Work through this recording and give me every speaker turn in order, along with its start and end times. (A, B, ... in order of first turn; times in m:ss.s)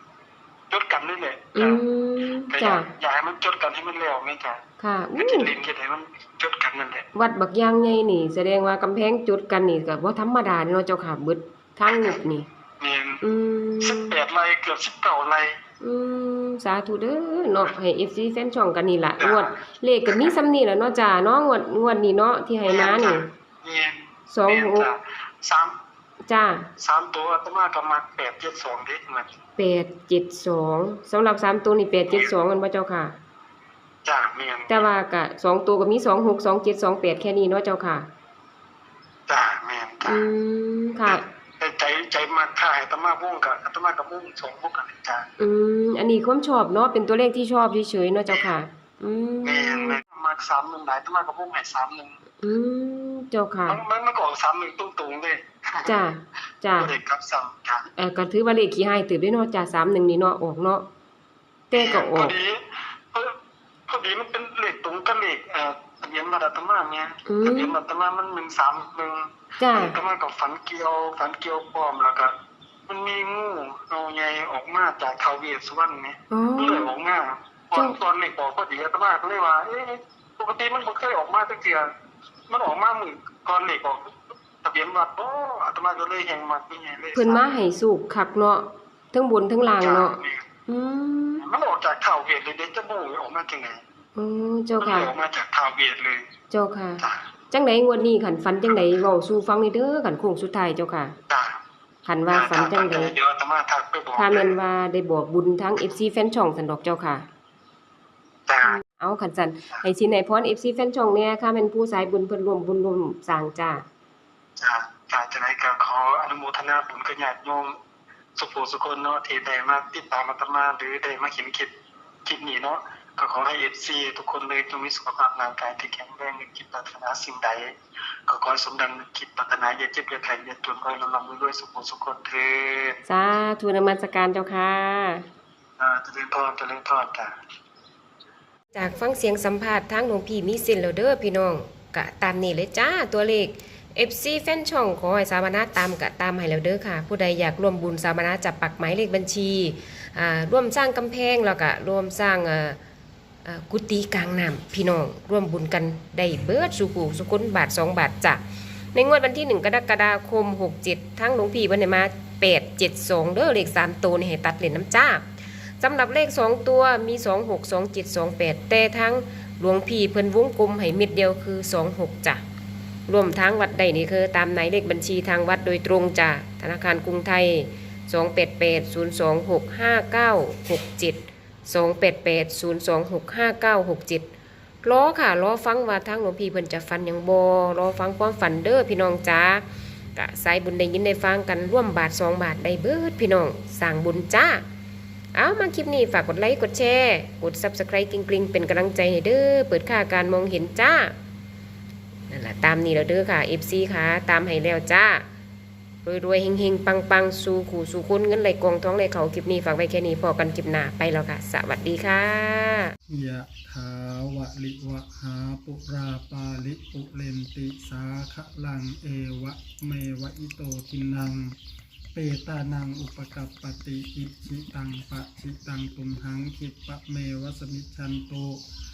0:00.7-0:01.8 A
0:01.6-0:02.9 B
0:02.5-0:04.6 A
0:04.8-0:05.5 B
0:05.2-0:07.1 A
0:07.2-0:12.5 B
0:11.9-0:12.2 A
0:12.8-0:13.2 A
0:13.2-0:14.2 B
0:13.8-0:15.6 A
0:15.8-0:23.3 B
0:19.2-0:19.6 A
0:22.7-0:25.8 A
0:24.3-0:24.9 B
0:26.3-0:26.7 B
0:26.8-0:29.3 A
0:29.6-0:33.2 B
0:34.0-0:34.9 A
0:34.7-0:38.1 B
0:39.3-0:40.3 A
0:40.1-0:41.2 B
0:41.1-0:45.2 A
0:45.4-0:50.0 B
0:48.3-0:48.6 A
0:49.4-0:52.2 A
0:52.4-0:53.8 B
0:53.7-0:56.0 A
0:55.8-0:56.9 B
0:56.8-0:57.9 A
0:58.0-1:00.8 B
1:01.7-1:02.4 B
1:01.7-1:02.6 A
1:03.9-1:12.3 A
1:07.3-1:07.7 B
1:09.6-1:10.0 B
1:12.9-1:21.9 A
1:16.3-1:16.9 B
1:22.5-1:27.5 A
1:27.2-1:30.2 B
1:29.8-1:30.5 A
1:30.7-1:31.4 B
1:31.4-1:33.8 A
1:34.2-1:35.1 B
1:34.8-1:36.3 A
1:36.5-1:41.2 B
1:41.3-1:41.6 A
1:42.1-1:43.1 B
1:42.3-1:44.5 A
1:44.2-1:47.3 B
1:48.5-1:48.8 A
1:48.6-1:53.8 B
1:54.6-1:57.8 A
1:58.4-2:01.7 A
2:02.2-2:07.7 A
2:08.3-2:13.0 A
2:13.1-2:15.3 B
2:15.8-2:17.3 A
2:18.8-2:32.8 B
2:33.4-2:38.4 B
2:38.9-2:45.3 B
2:45.8-2:52.4 B
2:53.1-3:04.3 B
3:04.8-3:09.6 B
3:10.2-3:14.6 B
3:15.3-3:21.1 B
3:22.3-3:25.2 B
3:26.0-3:33.0 B
3:33.1-3:41.6 C
3:42.2-3:48.6 C